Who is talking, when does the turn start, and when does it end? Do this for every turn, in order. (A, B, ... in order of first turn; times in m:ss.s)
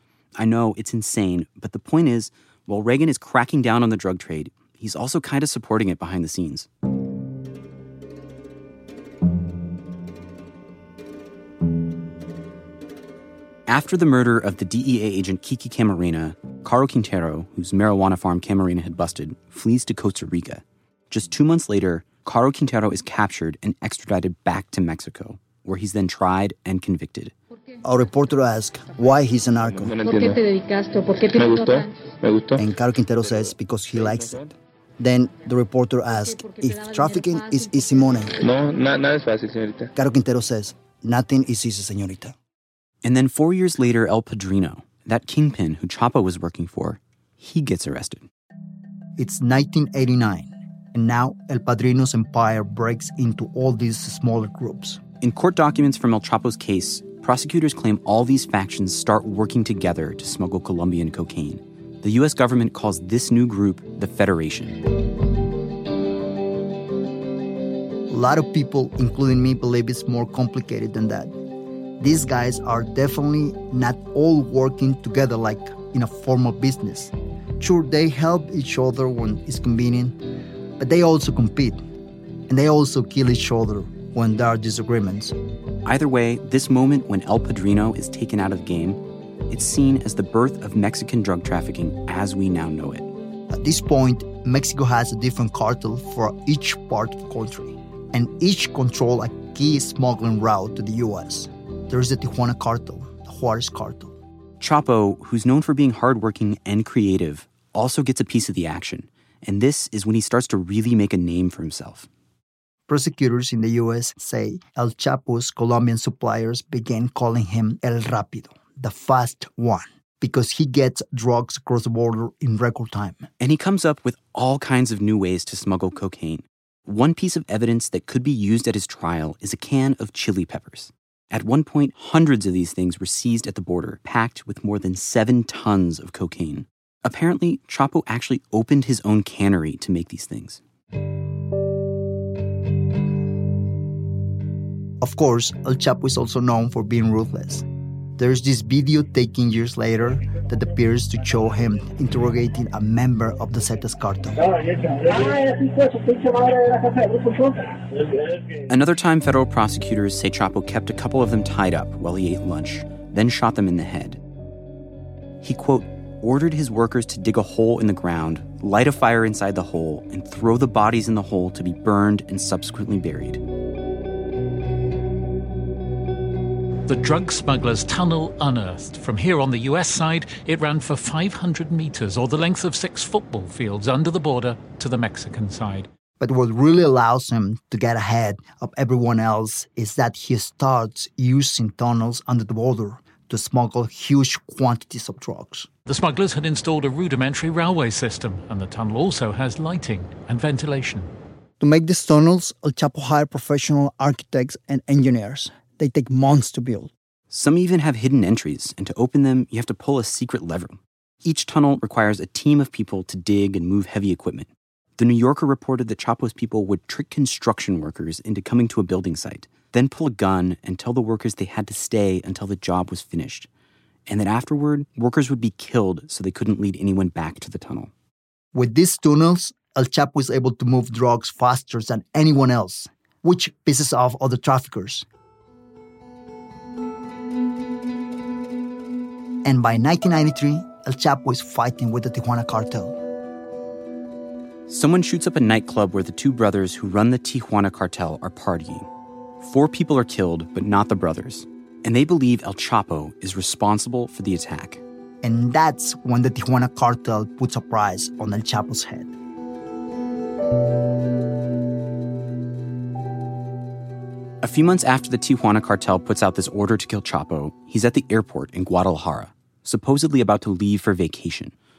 0:00.4-0:06.7 A
0:13.7-0:27.3 A
0:27.8-0:29.9 B
0:29.6-0:30.4 C
0:31.1-0:32.6 C
0:32.6-0:34.4 B
0:33.2-0:34.4 C
0:35.0-0:38.3 B
0:38.4-0:39.9 C
0:39.9-0:42.4 B
0:43.0-0:48.3 A
0:49.2-0:55.0 B
0:55.2-1:04.8 A
1:08.1-1:11.3 B
1:12.0-1:20.2 B
1:20.8-1:21.8 B
1:22.5-1:25.4 B
1:25.8-1:33.1 A
1:33.5-1:44.1 B
1:44.6-1:52.1 A
1:52.9-2:03.3 B
2:03.4-2:20.6 A
2:25.0-2:27.6 B
2:28.2-2:34.4 B
2:38.7-2:44.2 A
2:45.4-2:53.4 A
2:56.9-3:05.9 D
3:06.2-3:15.7 B
3:15.9-3:21.1 D
3:21.6-3:26.9 B
3:27.3-3:43.5 A
3:44.1-3:47.9 A
3:48.5-3:55.0 B
3:59.4-4:03.0 B
4:04.7-4:08.9 A
4:09.4-4:14.8 A
4:15.2-4:19.1 B
4:24.4-4:31.5 A